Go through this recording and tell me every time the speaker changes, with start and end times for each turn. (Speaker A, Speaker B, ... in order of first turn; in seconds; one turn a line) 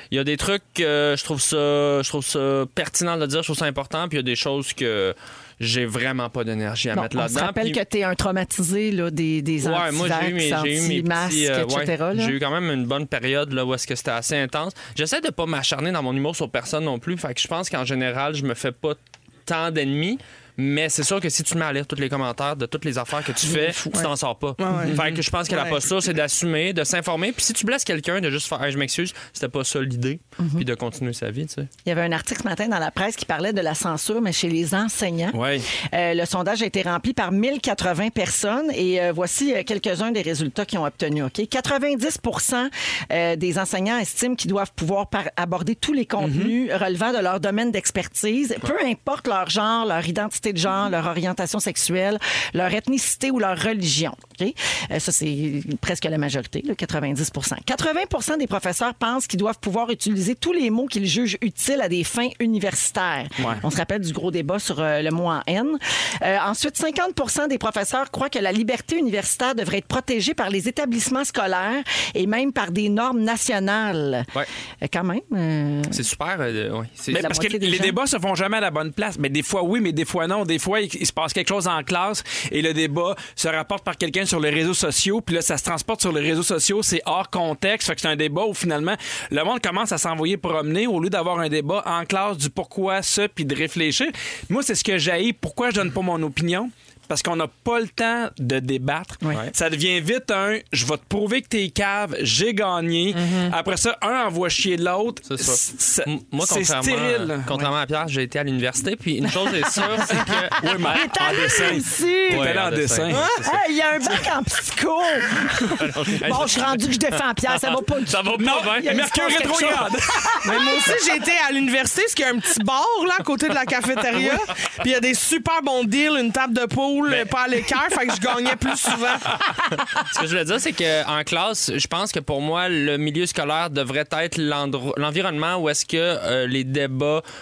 Speaker A: 0.1-7.8
Speaker B: 6.9-12.3
Speaker A: 9.6-31.7
Speaker B: 23.4-24.0
Speaker C: 24.6-25.8
Speaker D: 24.9-25.2
Speaker B: 30.4-30.6
Speaker B: 31.8-74.3
Speaker D: 35.3-35.7
Speaker D: 46.2-46.5
Speaker D: 63.4-63.6
Speaker B: 74.8-76.0
Speaker A: 75.9-77.3
Speaker D: 77.1-107.6
Speaker B: 77.1-78.0
Speaker A: 103.1-103.5
Speaker A: 105.3-111.7
Speaker B: 110.1-112.6
Speaker D: 110.6-113.2
Speaker A: 112.3-113.6
Speaker C: 113.1-113.4
Speaker B: 113.4-120.7
Speaker A: 115.6-119.1
Speaker D: 118.4-120.4
Speaker C: 120.4-129.4
Speaker A: 130.0-137.2